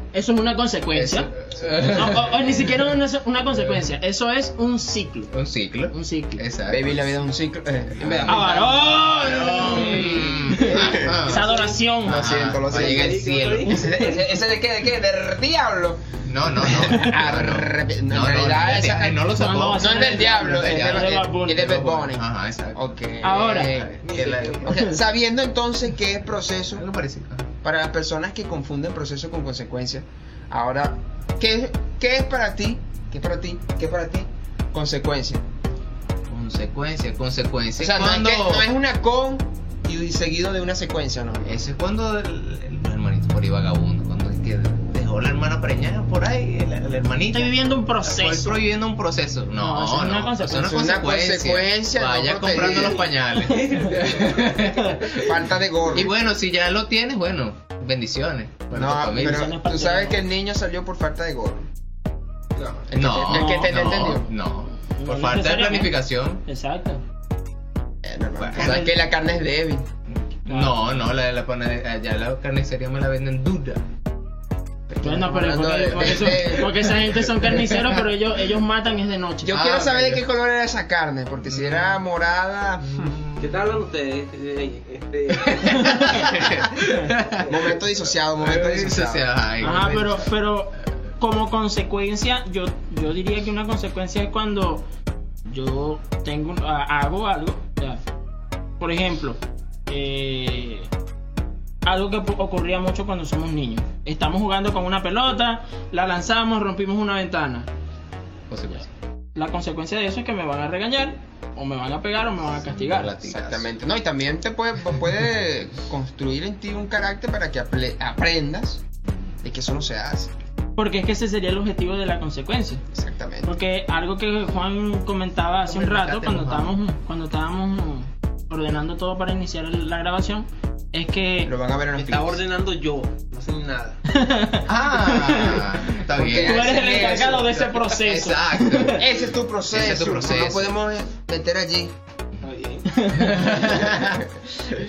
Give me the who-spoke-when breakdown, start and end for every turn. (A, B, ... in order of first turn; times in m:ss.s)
0:00.1-0:05.3 A
0:00.9-0:02.7 B
0:05.3-0:06.9 B
0:05.9-0:06.4 A
0:06.7-0:08.5 C
0:08.0-0:11.5 B
0:08.0-0:08.8 D
0:08.3-0:12.2 A
0:09.8-0:10.3 D
0:10.6-0:11.2 C
0:11.3-0:11.8 D
0:12.0-0:13.9 B
0:12.0-0:16.0 C
0:12.6-0:14.2 D
0:16.2-0:24.8 B
0:16.6-0:19.2 C
0:19.4-0:21.9 A
0:19.7-0:26.8 C
0:23.2-0:23.7 A
0:24.1-0:24.6 D
0:24.7-0:25.0 A
0:26.7-0:27.5 B
0:27.6-0:35.4 C
0:36.3-0:38.7 B
0:37.8-0:41.6 C
0:41.4-0:55.0 B
0:47.3-0:48.6 A
0:49.6-0:50.8 A
0:50.5-0:53.0 C
0:52.7-0:55.4 D
0:55.1-0:56.1 C
0:55.9-0:59.5 B
0:58.7-1:01.7 C
0:59.2-1:00.2 A
1:02.6-1:04.3 C
1:02.9-1:06.4 B
1:03.3-1:04.2 A
1:04.8-1:05.9 A
1:06.4-1:07.0 A
1:08.0-1:09.9 C
1:08.4-1:08.9 B
1:08.6-1:08.9 A
1:10.1-1:13.8 B
1:10.5-1:11.1 A
1:14.9-1:16.7 C
1:15.0-1:19.6 A
1:16.0-1:18.0 B
1:19.4-1:23.2 C
1:19.5-1:20.2 B
1:21.5-1:22.0 B
1:22.9-1:23.7 B
1:23.4-1:26.7 D
1:26.1-1:27.4 B
1:27.3-1:27.7 D
1:27.5-1:29.2 C
1:28.4-1:30.3 B
1:29.6-1:34.8 A
1:35.5-1:38.0 A
1:38.8-1:40.9 A
1:41.8-1:47.7 A
1:48.5-1:48.9 B
1:49.4-1:53.1 A
1:52.6-1:53.7 B
1:53.3-1:58.8 C
1:59.4-2:00.3 C
2:00.8-2:02.8 A
2:02.9-2:03.5 C
2:03.4-2:11.5 A
2:05.6-2:06.8 B
2:11.5-2:12.4 C
2:12.0-2:14.0 D
2:14.1-2:15.7 A
2:14.7-2:19.1 B
2:16.2-2:17.6 C
2:16.4-2:19.0 A
2:19.0-2:21.9 C
2:19.7-2:20.8 B
2:22.4-2:22.9 D
2:22.9-2:23.8 A
2:23.1-2:24.3 B